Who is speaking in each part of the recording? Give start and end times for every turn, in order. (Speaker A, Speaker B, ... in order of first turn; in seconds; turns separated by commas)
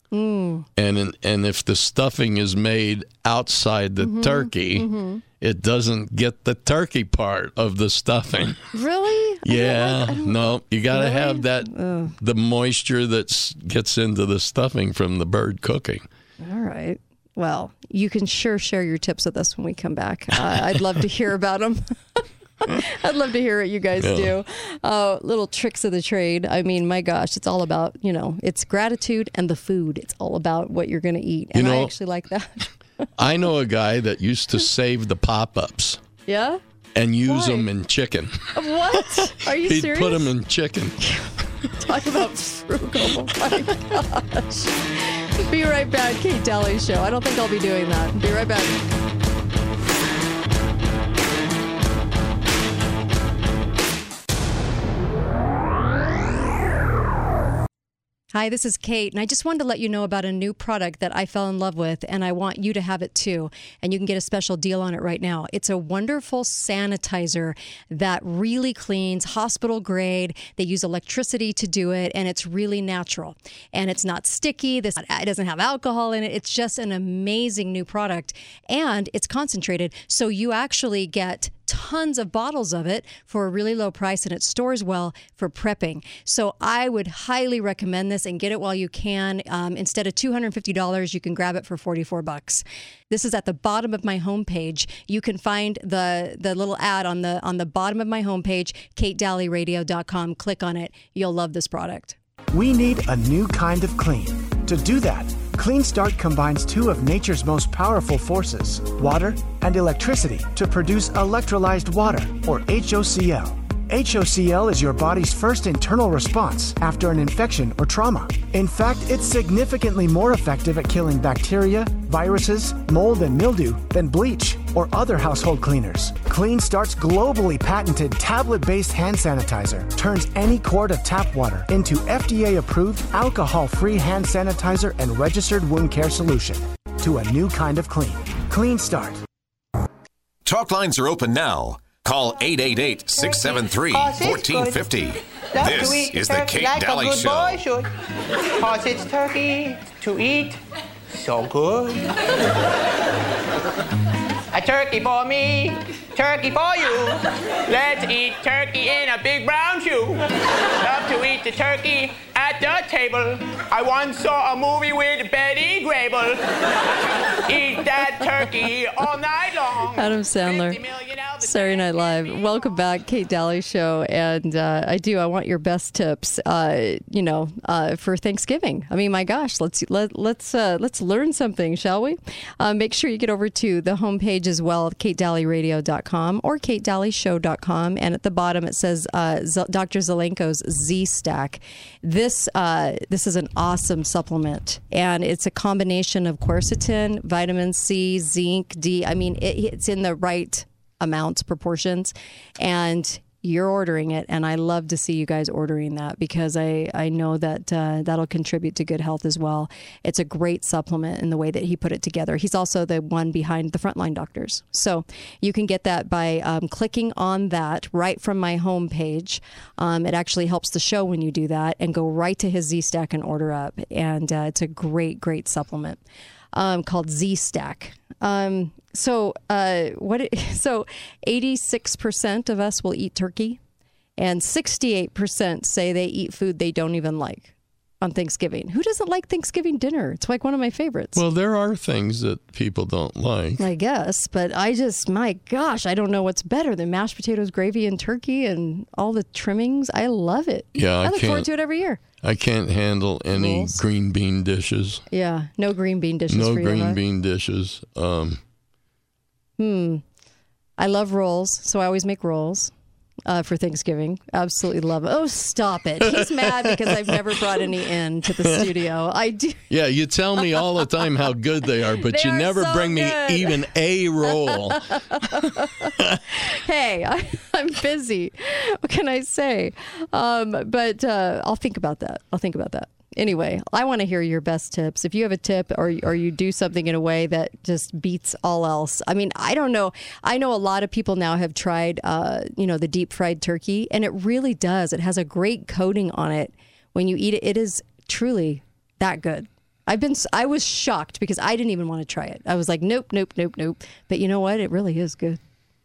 Speaker A: 0.1-0.7, Speaker B: 0.8-4.9, Speaker A: 4.0-5.2, Speaker B: 5.4-8.7, Speaker A: 8.7-12.1, Speaker B: 9.4-16.0, Speaker A: 16.4-33.0, Speaker B: 24.0-24.3, Speaker B: 31.5-31.9, Speaker B: 33.2-36.0, Speaker A: 36.2-36.6, Speaker B: 37.0-41.0, Speaker A: 37.2-37.7, Speaker A: 38.5-40.3, Speaker A: 41.8-48.8, Speaker A: 58.3-102.2, Speaker C: 102.5-139.2, Speaker D: 140.4-147.6, Speaker E: 143.2-144.8, Speaker E: 145.5-147.9, Speaker E: 148.6-150.6, Speaker E: 151.1-152.1, Speaker E: 154.5-160.3, Speaker E: 160.8-172.7, Speaker A: 169.9-170.8, Speaker A: 171.4-226.0, Speaker A: 226.5-233.6, Speaker A: 234.2-241.2, Speaker B: 241.1-243.7, Speaker A: 243.6-252.0, Speaker B: 250.7-251.5, Speaker B: 252.2-255.0, Speaker A: 253.3-253.8, Speaker A: 255.1-257.0, Speaker B: 256.3-258.4, Speaker A: 259.6-260.0, Speaker A: 260.8-262.7, Speaker A: 263.2-269.6, Speaker B: 266.0-267.4, Speaker B: 269.7-276.2, Speaker A: 272.0-273.6, Speaker A: 274.6-305.4